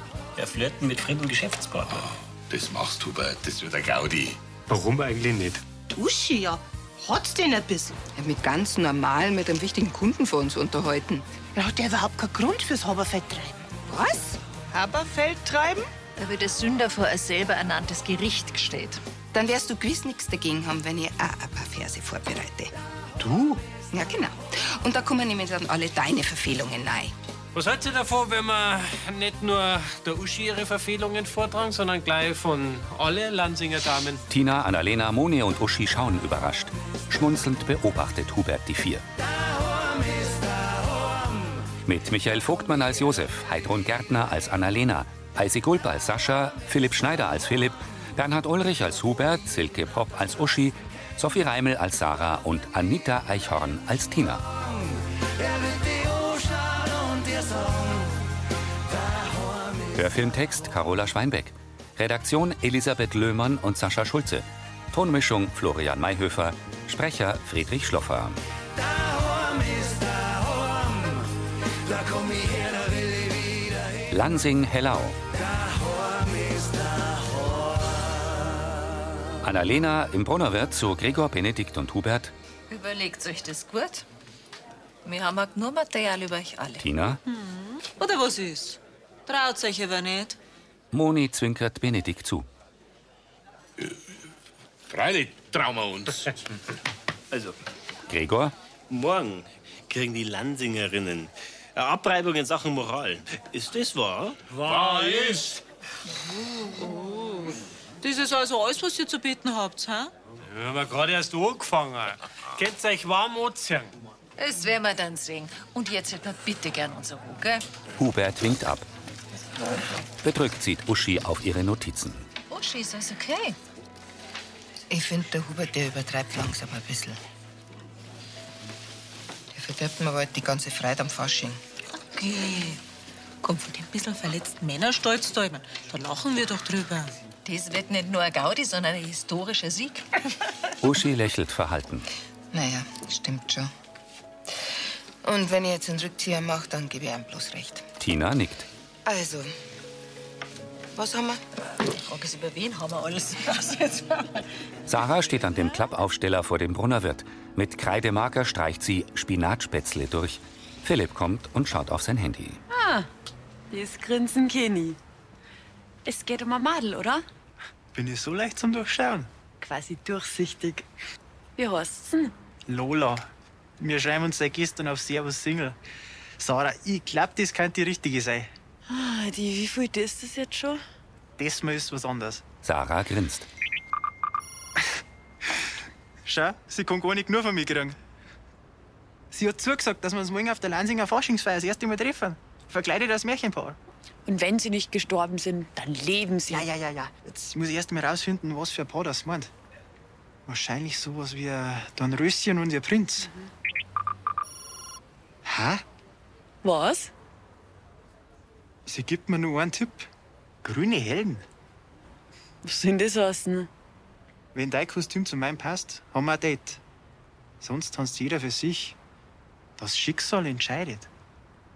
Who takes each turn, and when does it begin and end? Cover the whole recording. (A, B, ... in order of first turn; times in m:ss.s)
0:00.4-0:02.1 A
0:01.9-0:04.4 B
0:04.7-0:05.6 C
0:05.9-0:08.0 D
0:08.2-0:11.3 E
0:11.6-0:15.9 D
0:16.2-0:19.0 F
0:19.3-0:22.7 E
0:23.2-0:23.6 C
0:23.9-0:27.1 E
0:27.5-0:34.2 C
0:34.3-0:39.0 G
0:41.8-0:54.5 G
0:59.9-1:08.4 G
1:14.1-1:15.2 G
1:19.4-1:22.3 G
1:22.7-1:24.0 F
1:25.0-1:26.8 F
1:26.8-1:27.2 G
1:27.3-1:30.4 H
1:30.9-1:32.5 G
1:34.9-1:36.3 B
1:38.1-1:38.5 G
1:38.9-1:44.4 A
1:44.5-1:45.4 C
1:44.7-1:45.4 B
1:46.8-1:47.3 H
1:48.0-1:50.1 H
1:50.4-1:53.9 C
1:54.4-1:57.6 F
1:58.0-1:58.8 G
2:00.2-2:02.2 G
2:02.5-2:03.6 F
2:04.9-2:07.2 E
2:09.5-2:11.6 E
2:12.2-2:12.8 F
2:13.4-2:14.3 F
2:14.0-2:17.1 H
2:17.4-2:20.0 F
2:20.8-2:22.1 G
2:22.5-2:23.7 E
2:25.2-2:27.9 E
2:28.0-2:28.7 G
2:29.0-2:29.5 E
2:30.9-2:31.4 E
2:31.9-2:34.4 F
2:34.9-2:42.6 G
2:42.7-2:43.1 I
2:43.7-2:45.0 I
2:46.0-2:47.2 I
2:47.9-2:49.3 J
2:49.6-2:50.9 I
2:51.6-2:52.3 I
2:52.7-2:53.3 J
2:53.8-2:55.8 J
2:56.4-2:58.5 J
2:58.9-3:00.8 I
3:01.4-3:02.4 J
3:02.6-3:03.5 G
3:06.3-3:08.0 J
3:09.3-3:13.8 J
3:14.3-3:16.7 I
3:16.6-3:17.1 D
3:16.9-3:19.5 J
3:20.5-3:23.3 J
3:25.4-3:25.8 J
3:26.6-3:27.1 I
3:28.9-3:30.1 J
3:30.6-3:31.4 J
3:32.6-3:33.7 I
3:34.5-3:36.8 J
3:37.6-3:39.0 J
3:39.8-3:41.1 J